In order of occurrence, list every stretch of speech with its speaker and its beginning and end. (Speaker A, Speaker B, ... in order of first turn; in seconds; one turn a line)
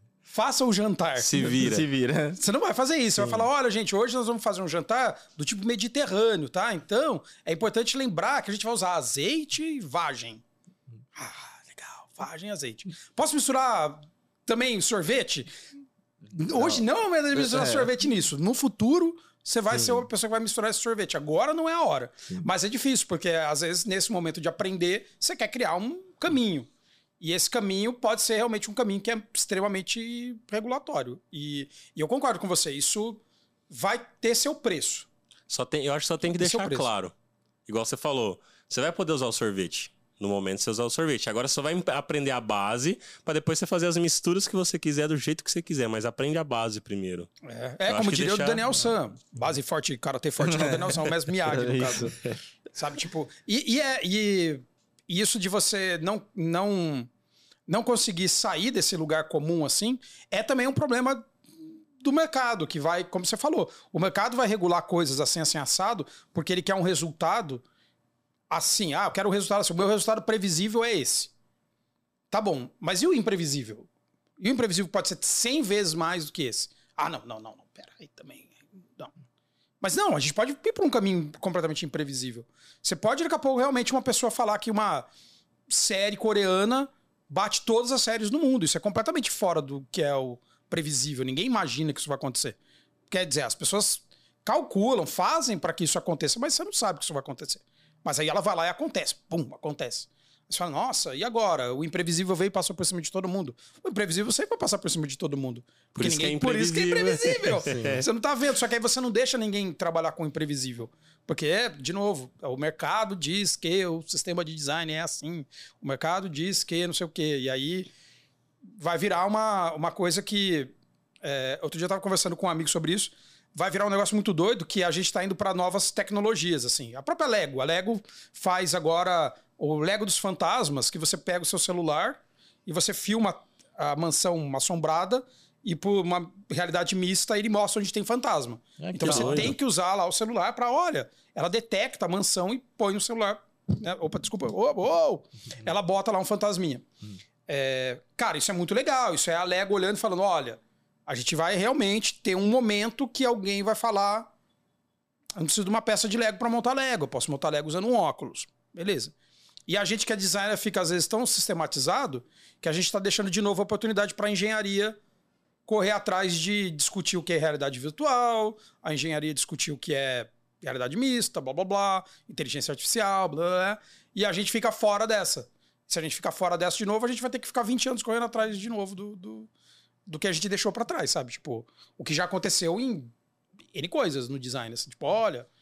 Speaker A: 0.2-1.5
Speaker B: 1.2-1.9
Speaker C: 1.4-2.4
Speaker A: 2.4-10.4
Speaker C: 3.2-3.5
Speaker A: 11.2-15.5
Speaker A: 16.3-26.7
Speaker C: 16.6-16.8
Speaker C: 17.3-17.9
Speaker C: 19.7-20.0
Speaker A: 27.2-35.1
Speaker B: 35.5-37.1
Speaker A: 36.2-36.9
Speaker B: 37.7-47.3
Speaker A: 47.4-52.1
Speaker B: 47.9-48.7
Speaker C: 50.5-52.2
Speaker A: 52.7-57.1
Speaker A: 57.7-61.3
Speaker A: 62.0-67.6
Speaker A: 68.5-71.3
Speaker A: 72.3-73.9
Speaker A: 74.4-79.1
Speaker A: 79.8-85.1
Speaker A: 85.7-92.6
Speaker A: 93.1-117.9
Speaker B: 105.9-107.9
Speaker C: 107.6-108.0
Speaker A: 118.8-146.8
Speaker C: 138.8-139.5
Speaker B: 139.0-139.5
Speaker A: 147.5-154.3
Speaker A: 155.4-159.1
Speaker A: 159.7-165.0
Speaker A: 165.7-179.5
Speaker A: 180.1-183.1
Speaker A: 183.7-185.5